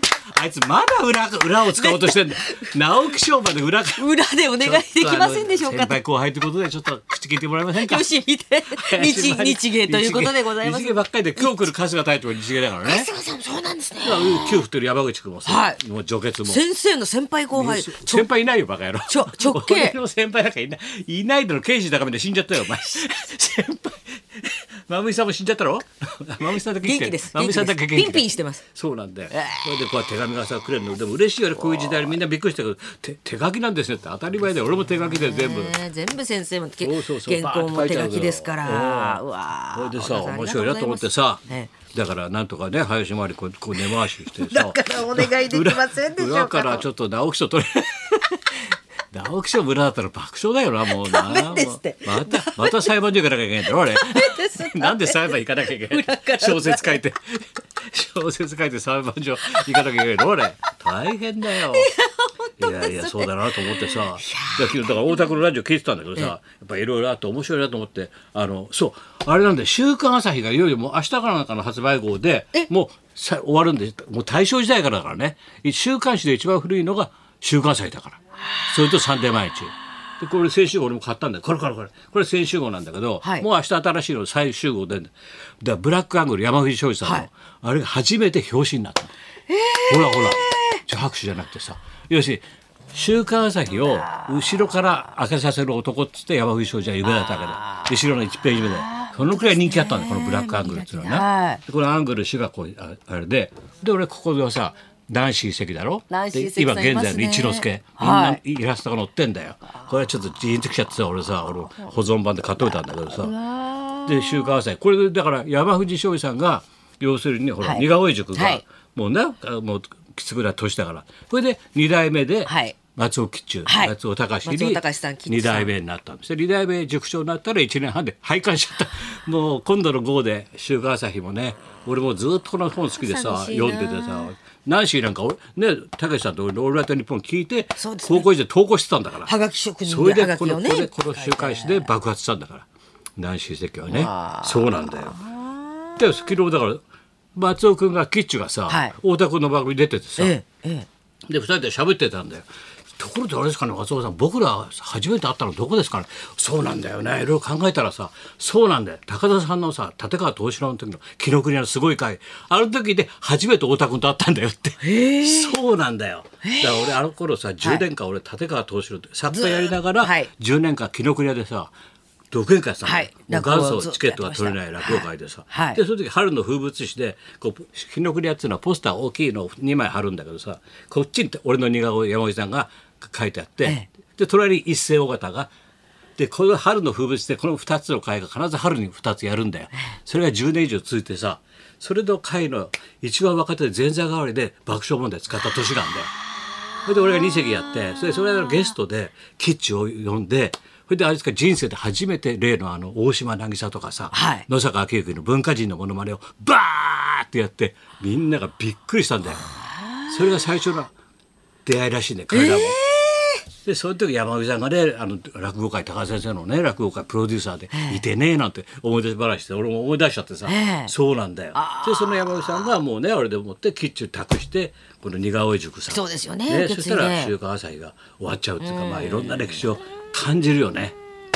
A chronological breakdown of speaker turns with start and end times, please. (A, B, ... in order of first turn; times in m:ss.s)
0:00.3-0:04.1 A
0:01.8-0:02.6 B
0:04.0-0:06.0 B
0:04.6-0:08.0 A
0:07.8-0:11.5 B
0:08.7-0:13.1 A
0:12.8-0:14.6 B
0:14.0-0:16.6 A
0:15.5-0:15.8 B
0:16.4-0:18.3 B
0:17.5-0:35.8 A
0:19.1-0:20.0 B
0:26.8-0:28.6 B
0:29.3-0:29.8 B
0:31.8-0:32.0 B
0:35.1-0:41.7 B
0:36.8-0:39.2 A
0:39.7-1:01.9 A
0:44.2-0:46.9 B
0:50.9-0:52.9 B
0:53.8-0:57.0 B
1:01.7-1:05.1 B
1:02.6-1:29.1 A
1:29.5-1:30.8 B
1:29.9-1:32.4 A
1:32.9-1:53.3 A
1:38.7-1:41.6 B
1:46.1-1:48.4 B
1:53.2-1:54.6 B
1:54.1-2:19.3 A
1:57.6-1:58.6 B
2:02.5-2:02.8 B
2:03.7-2:03.9 B
2:04.4-2:05.7 B
2:13.0-2:14.3 B
2:17.8-2:18.3 B
2:19.2-2:21.9 B
2:19.8-2:25.2 A
2:23.9-2:26.1 B
2:26.0-2:26.8 A
2:27.4-2:30.4 A
2:28.7-2:28.9 B
2:30.2-2:30.9 B
2:31.3-2:32.4 A
2:33.0-2:51.7 A
2:44.8-2:45.6 B
2:46.4-2:46.9 B
2:49.3-2:50.3 B
2:52.3-3:05.5 A
2:52.8-2:55.8 B
3:06.2-3:16.1 A
3:16.8-3:29.5 A
3:24.1-3:24.5 B
3:30.0-3:30.9 A
3:31.7-3:32.8 A
3:32.3-3:33.4 B
3:33.6-3:51.0 A
3:37.7-3:38.0 B
3:40.5-3:40.9 B
3:41.6-3:42.6 B
3:45.9-3:47.3 B
3:48.6-3:49.7 B